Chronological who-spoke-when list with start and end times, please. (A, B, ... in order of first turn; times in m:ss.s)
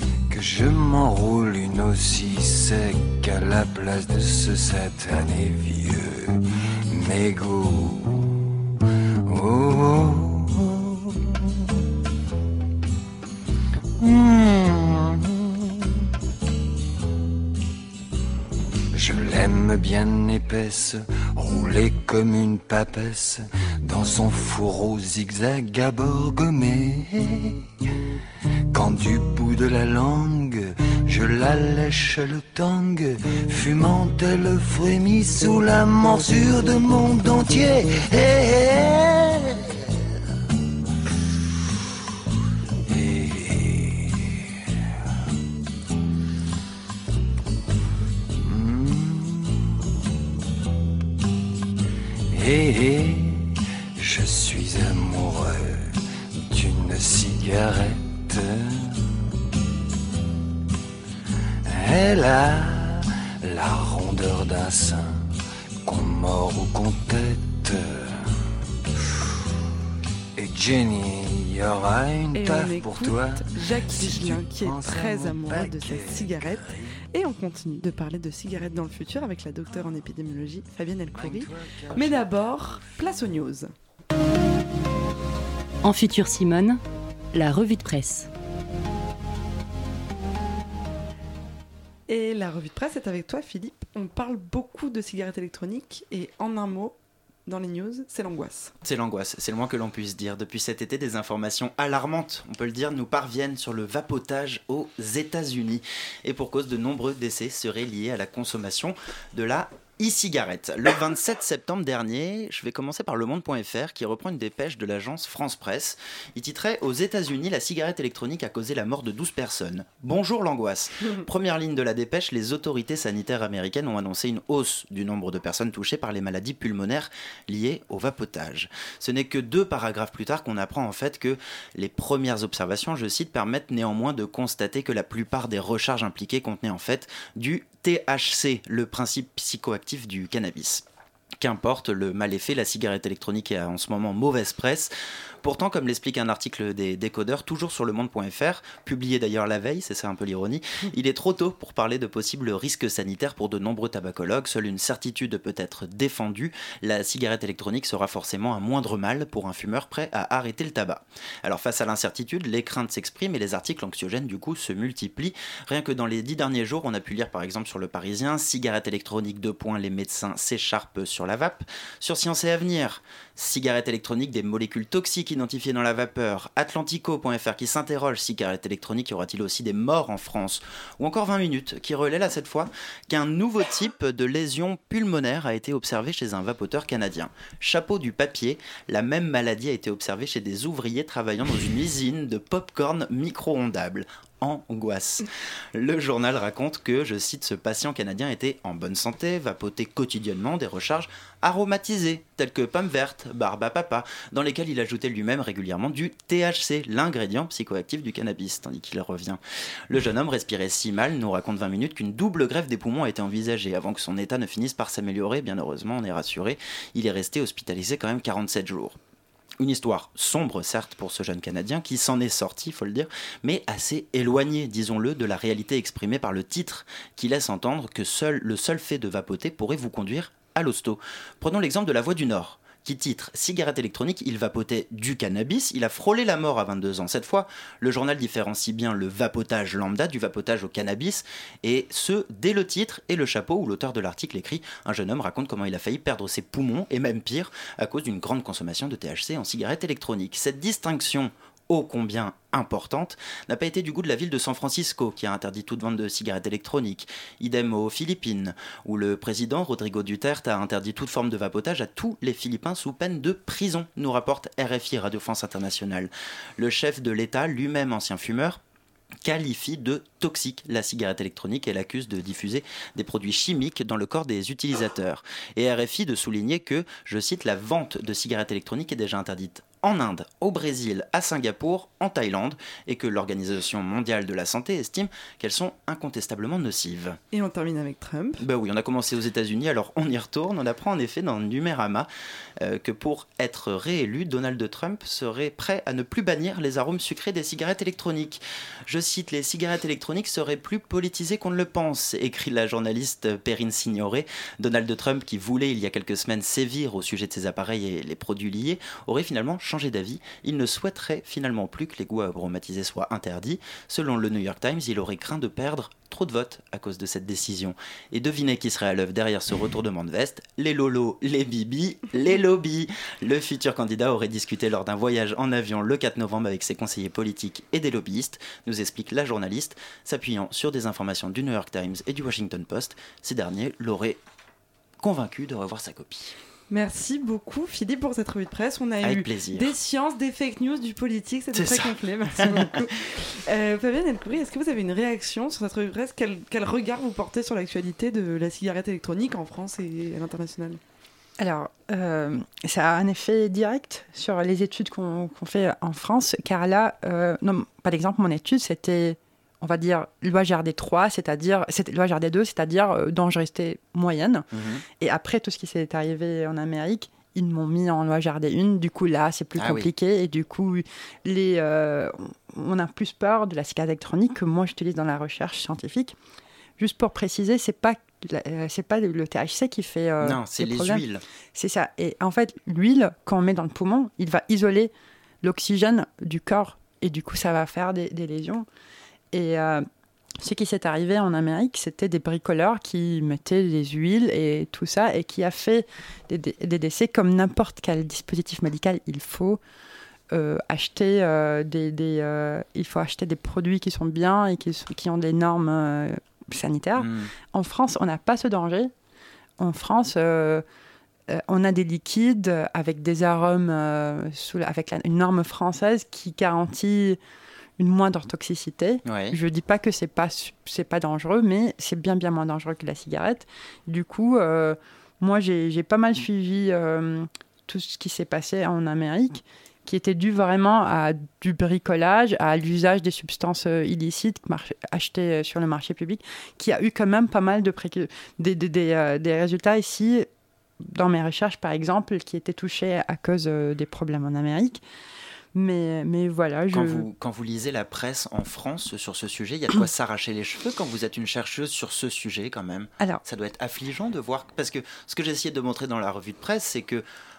0:00.3-0:11.7 A
0:14.0-0:16.1 A
0:18.9-0:27.7 A
0:28.7-0:40.2 A
0:42.8-0:44.9 A
0:48.3-0:50.0 A
0:52.3-0:59.3 A
1:01.6-1:05.3 A
1:05.8-1:08.4 A
1:09.0-1:09.5 A
1:10.4-1:17.0 A
1:12.3-1:23.7 B
1:21.1-1:23.1 A
1:25.8-1:26.8 C
1:27.3-1:28.3 C
1:32.1-1:36.9 B
1:37.4-1:38.7 B
1:38.8-2:20.8 D
2:21.4-2:24.9 D
2:25.4-3:39.0 D
3:39.6-4:28.6 D
4:29.2-4:47.2 D
4:47.3-4:48.4 B
4:48.4-4:52.1 D
4:52.6-5:34.2 D
5:35.0-5:36.3 D
5:36.7-5:50.8 B
5:39.0-5:39.7 D
5:41.5-5:42.7 D
5:51.4-6:04.5 E
6:04.5-6:04.8 D
6:05.0-6:16.2 E
6:09.6-6:09.9 D
6:16.8-6:21.0 E
6:20.2-6:21.2 D
6:21.5-6:24.9 E
6:25.4-6:28.6 E
6:29.3-6:29.8 E
6:30.4-6:39.6 E
6:40.3-6:48.9 E
6:47.0-6:47.3 D
6:49.6-6:50.6 E
6:51.3-6:57.2 E
6:57.8-7:20.3 E
6:59.0-6:59.4 D
7:20.8-7:24.8 E
7:25.5-7:27.0 E
7:26.7-7:37.0 D